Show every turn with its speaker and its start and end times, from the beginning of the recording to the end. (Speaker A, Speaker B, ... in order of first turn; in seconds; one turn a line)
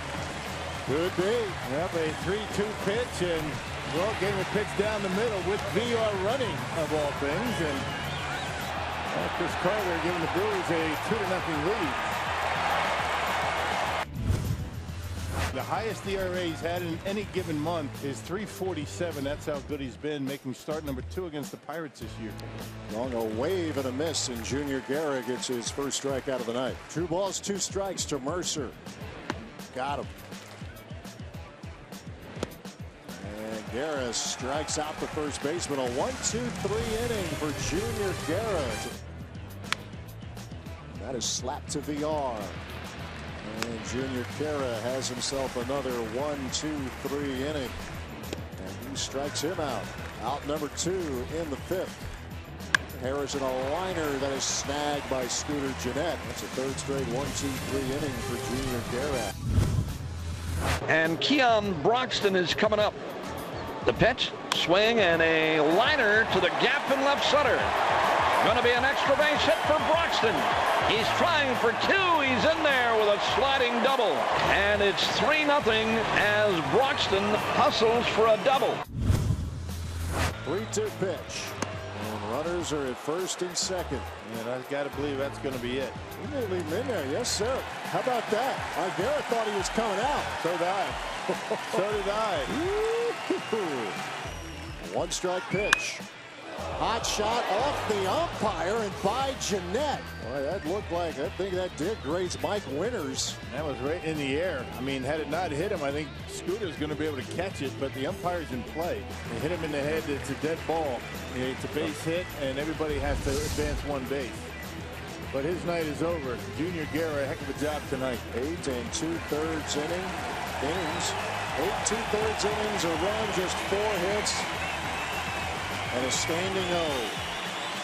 Speaker A: 0.9-1.6
Speaker B: 1.6-7.9
Speaker B: 9.1-12.1
Speaker B: 15.5-22.5
Speaker A: 22.9-28.8
Speaker A: 29.7-30.1
Speaker A: 33.1-39.0
Speaker A: 40.9-42.6
Speaker A: 43.4-47.8
Speaker A: 48.6-52.1
Speaker A: 52.9-59.3
Speaker C: 60.9-63.0
Speaker C: 63.9-67.7
Speaker C: 68.4-78.8
Speaker A: 80.4-84.1
Speaker B: 84.2-86.0
Speaker A: 86.2-90.3
Speaker B: 90.4-91.0
Speaker A: 91.5-91.8
Speaker B: 91.7-92.5
Speaker A: 92.5-94.0
Speaker A: 94.8-96.0
Speaker A: 96.8-103.4
Speaker B: 103.5-114.5
Speaker B: 115.3-118.3
Speaker A: 118.3-124.5
Speaker A: 125.9-127.2